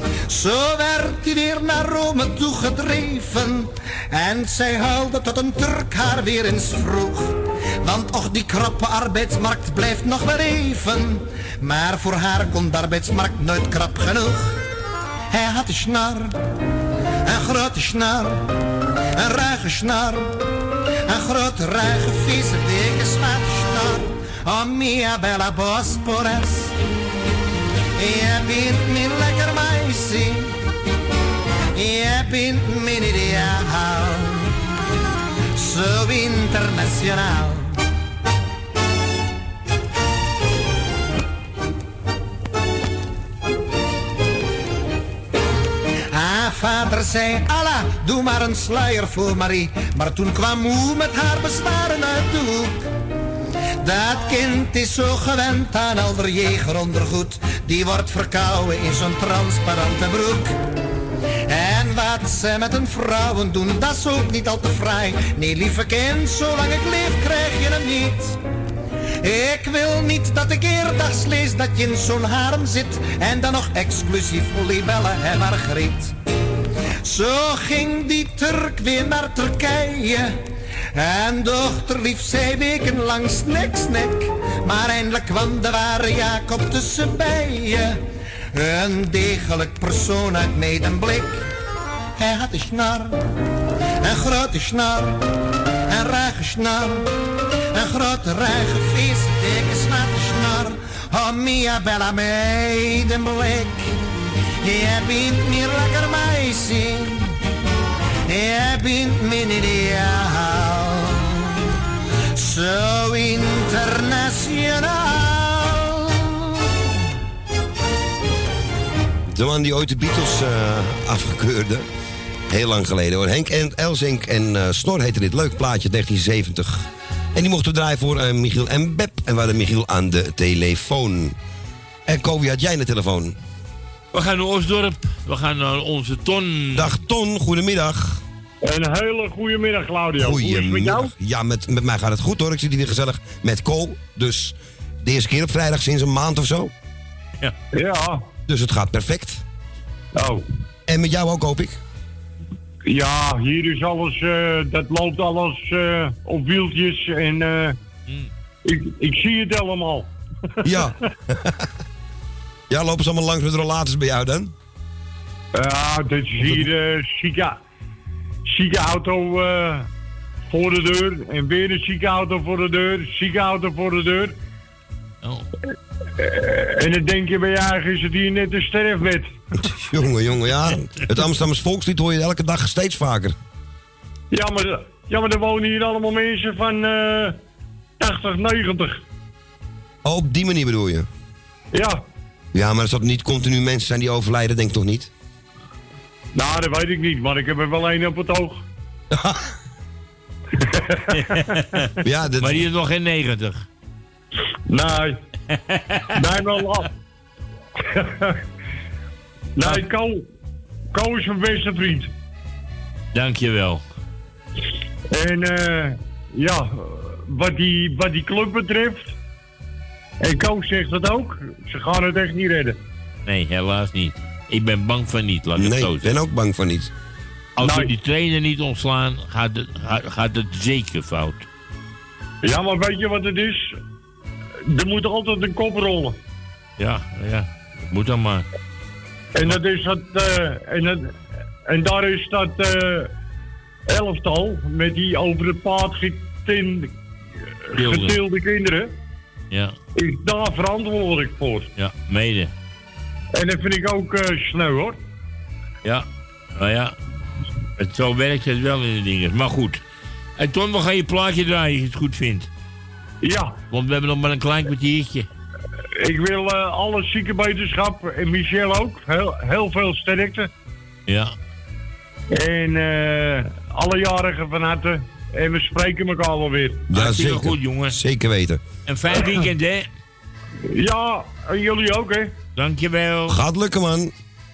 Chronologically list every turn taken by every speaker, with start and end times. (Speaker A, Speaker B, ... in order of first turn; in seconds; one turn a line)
Speaker A: 0.3-14.6
Speaker A: 15.3-16.3
Speaker A: 17.3-18.4
Speaker A: 19.2-20.3
Speaker A: 21.1-26.7
Speaker A: 28.0-30.6
Speaker A: 31.8-34.5
Speaker A: 35.6-37.8
Speaker A: 46.1-52.8
Speaker A: 53.8-60.6
Speaker A: 61.5-68.4
Speaker A: 69.2-76.1
Speaker A: 77.0-80.4
Speaker A: 81.0-88.0
Speaker A: 88.5-91.4
Speaker A: 92.2-93.2
Speaker A: 94.0-95.2
Speaker A: 95.9-97.1
Speaker A: 97.8-103.9
Speaker A: 104.6-107.3
Speaker A: 108.3-111.5
Speaker A: 112.4-116.5
Speaker B: 119.3-121.8
Speaker B: 122.5-131.4
Speaker B: 132.1-133.4
Speaker C: 134.1-136.9
Speaker B: 136.7-138.2
Speaker D: 138.6-141.1
Speaker B: 140.2-146.7
Speaker D: 147.7-148.2
Speaker B: 148.5-149.4
Speaker D: 150.2-150.4
Speaker B: 150.9-151.8
Speaker D: 152.8-157.8
Speaker D: 158.7-160.1
Speaker B: 160.6-161.7
Speaker B: 162.7-164.5
Speaker D: 165.6-167.6
Speaker D: 168.5-169.9
Speaker D: 170.5-174.4
Speaker D: 176.2-179.3
Speaker B: 179.6-183.3
Speaker D: 184.3-187.4
Speaker D: 188.0-189.0
Speaker B: 190.0-191.1
Speaker D: 191.7-192.0
Speaker B: 192.5-195.1
Speaker D: 196.3-198.6
Speaker B: 199.1-199.4
Speaker D: 201.1-201.5
Speaker C: 201.3-201.8
Speaker B: 202.0-202.6
Speaker C: 202.4-203.7
Speaker D: 204.7-205.2
Speaker C: 205.5-206.0
Speaker D: 206.2-206.9
Speaker D: 207.9-208.3
Speaker D: 209.6-210.2
Speaker D: 210.9-212.1
Speaker C: 213.1-213.8
Speaker D: 215.1-219.1
Speaker D: 220.2-222.8
Speaker C: 223.3-226.2
Speaker B: 225.6-226.9
Speaker C: 227.6-231.5
Speaker D: 227.6-227.9
Speaker D: 232.4-233.7
Speaker D: 234.7-236.2
Speaker C: 236.8-238.5
Speaker D: 239.3-241.1
Speaker D: 241.7-243.1
Speaker D: 243.9-246.9
Speaker C: 247.8-248.2
Speaker D: 247.8-248.9
Speaker D: 250.0-251.7
Speaker C: 251.8-252.5
Speaker D: 253.3-255.0
Speaker C: 255.8-256.9
Speaker C: 257.8-259.8
Speaker C: 260.4-262.5
Speaker D: 263.2-263.6
Speaker C: 263.7-265.3
Speaker D: 266.0-270.5
Speaker C: 271.1-271.4
Speaker D: 272.3-276.9
Speaker B: 276.9-278.6
Speaker C: 276.9-278.0
Speaker C: 278.9-279.9
Speaker D: 280.7-282.3
Speaker C: 282.6-283.4
Speaker B: 283.3-284.1